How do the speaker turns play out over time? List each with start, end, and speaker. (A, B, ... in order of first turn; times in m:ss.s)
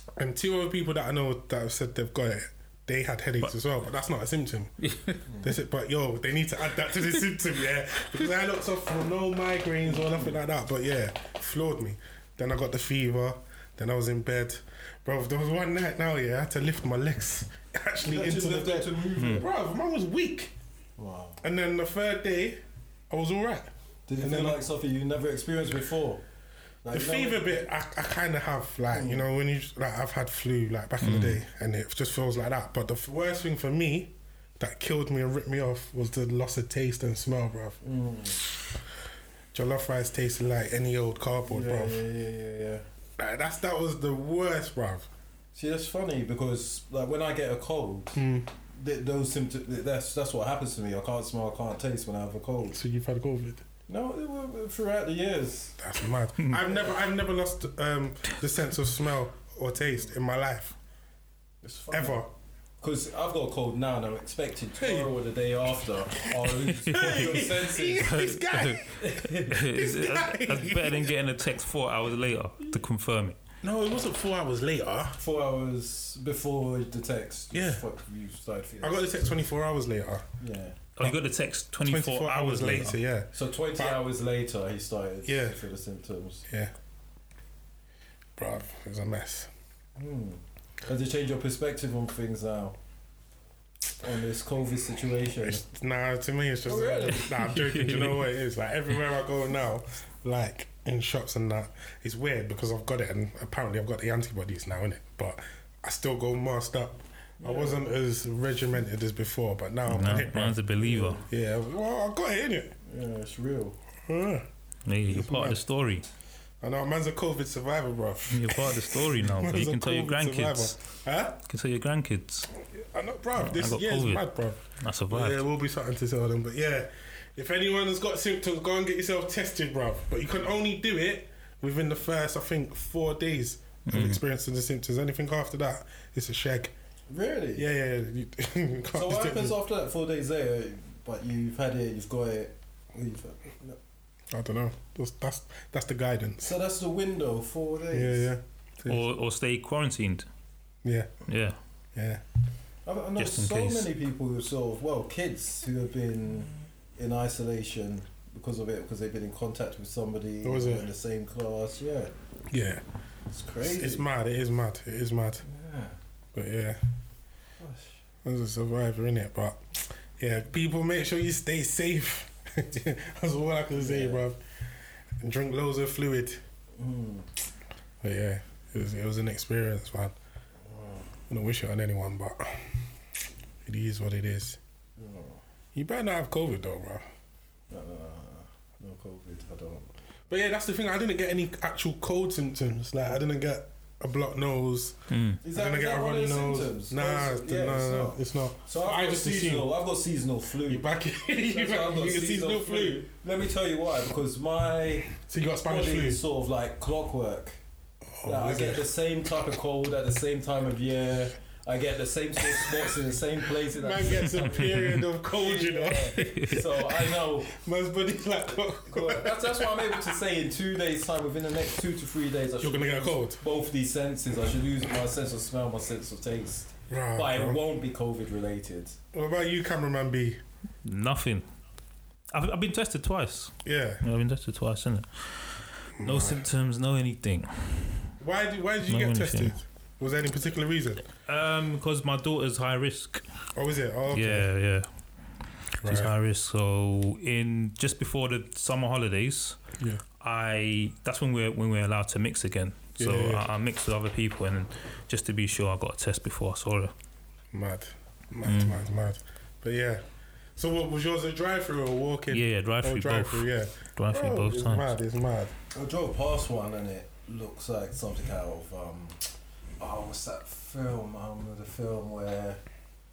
0:00.2-0:04.7 A
0:04.8-0:05.2 B
0:05.3-0:05.5 C
0:05.4-0:20.5 A
0:09.8-0:10.4 C
0:18.0-0:19.5 C
0:19.2-0:19.4 B
0:21.0-0:21.4 C
0:21.4-0:24.6 A
0:24.1-0:26.2 C
0:26.8-0:27.4 C
0:26.9-0:37.8 A
0:28.9-0:29.2 C
0:31.0-0:31.4 B
0:37.8-0:38.4 C
0:39.5-0:42.0 A
0:41.4-0:42.8 C
0:43.2-0:45.1 A
0:45.5-0:52.8 C
0:48.2-0:48.5 A
0:52.7-0:53.6 A
0:53.9-0:55.8 C
0:55.8-1:00.8 A
0:56.6-0:56.9 C
1:01.6-1:02.2 C
1:01.9-1:02.3 A
1:02.8-1:08.1 C
1:04.8-1:05.1 A
1:06.2-1:11.2 A
1:06.8-1:07.4 B
1:08.0-1:13.4 B
1:09.0-1:09.6 C
1:13.6-1:15.2 A
1:15.2-1:19.4 C
1:17.5-1:17.8 A
1:18.8-1:20.3 A
1:20.4-1:20.8 C
1:21.0-1:23.0 B
1:21.8-1:24.0 A
1:23.3-1:26.5 C
1:25.3-1:25.6 A
1:28.4-1:29.5 A
1:30.0-1:32.8 C
1:34.0-1:35.6 C
1:35.4-1:50.6 A
1:36.6-1:37.5 C
1:37.5-1:38.2 B
1:47.4-1:47.8 C
1:49.9-1:51.2 B
1:50.8-1:51.3 C
1:51.3-1:52.8 A
1:52.8-1:53.8 C
1:54.1-1:54.5 A
1:54.9-1:56.1 B
1:55.1-1:55.6 A
1:56.6-2:01.4 A
1:58.3-2:00.8 B
2:01.5-2:02.5 B
2:02.6-2:16.7 A
2:03.4-2:05.4 B
2:13.9-2:14.2 B
2:17.1-2:17.6 C
2:17.6-2:19.6 A
2:18.9-2:23.8 C
2:24.3-2:26.5 A
2:26.4-2:28.3 C
2:27.9-2:29.0 A
2:28.9-2:30.3 B
2:30.8-2:31.1 A
2:31.3-2:31.6 B
2:32.0-2:32.2 A
2:32.9-2:42.1 C
2:33.2-2:33.9 B
2:40.4-2:40.9 A
2:42.5-2:42.8 A
2:43.3-2:44.1 C
2:43.6-2:45.4 A
2:45.4-2:46.0 C
2:46.4-2:46.8 A
2:47.6-2:48.0 C
2:48.2-2:54.4 A
2:53.7-2:54.2 C
2:55.2-2:56.4 A
2:56.8-2:57.3 C
2:58.0-3:00.2 A
3:00.6-3:01.1 C
3:01.3-3:02.7 A
3:03.6-3:04.6 A
3:05.0-3:05.4 C
3:05.8-3:07.1 A
3:07.7-3:09.9 C
3:10.3-3:19.7 A
3:15.1-3:15.4 B
3:15.4-3:20.9 C
3:20.7-3:23.1 A
3:21.4-3:27.6 C
3:25.1-3:26.2 A
3:28.2-3:28.9 A
3:28.2-3:37.5 C
3:33.6-3:40.2 A
3:34.6-3:35.0 B
3:36.2-3:36.7 B
3:38.9-3:49.0 C
3:42.6-3:43.4 A
3:46.9-3:47.6 A
3:49.1-3:50.4 A
3:50.8-3:51.4 B
3:52.3-3:58.1 B
3:53.6-3:54.0 A
3:56.0-3:56.5 A
3:58.2-4:01.0 A
3:58.9-3:59.6 B
4:01.3-4:03.2 B
4:03.6-4:04.5 A
4:04.1-4:04.9 B
4:05.8-4:09.6 B
4:05.8-4:06.1 A
4:10.2-4:16.9 B
4:13.0-4:13.4 A
4:17.5-4:20.0 A
4:18.4-4:18.8 B
4:20.6-4:25.5 A
4:22.3-4:24.9 B
4:25.7-4:32.6 C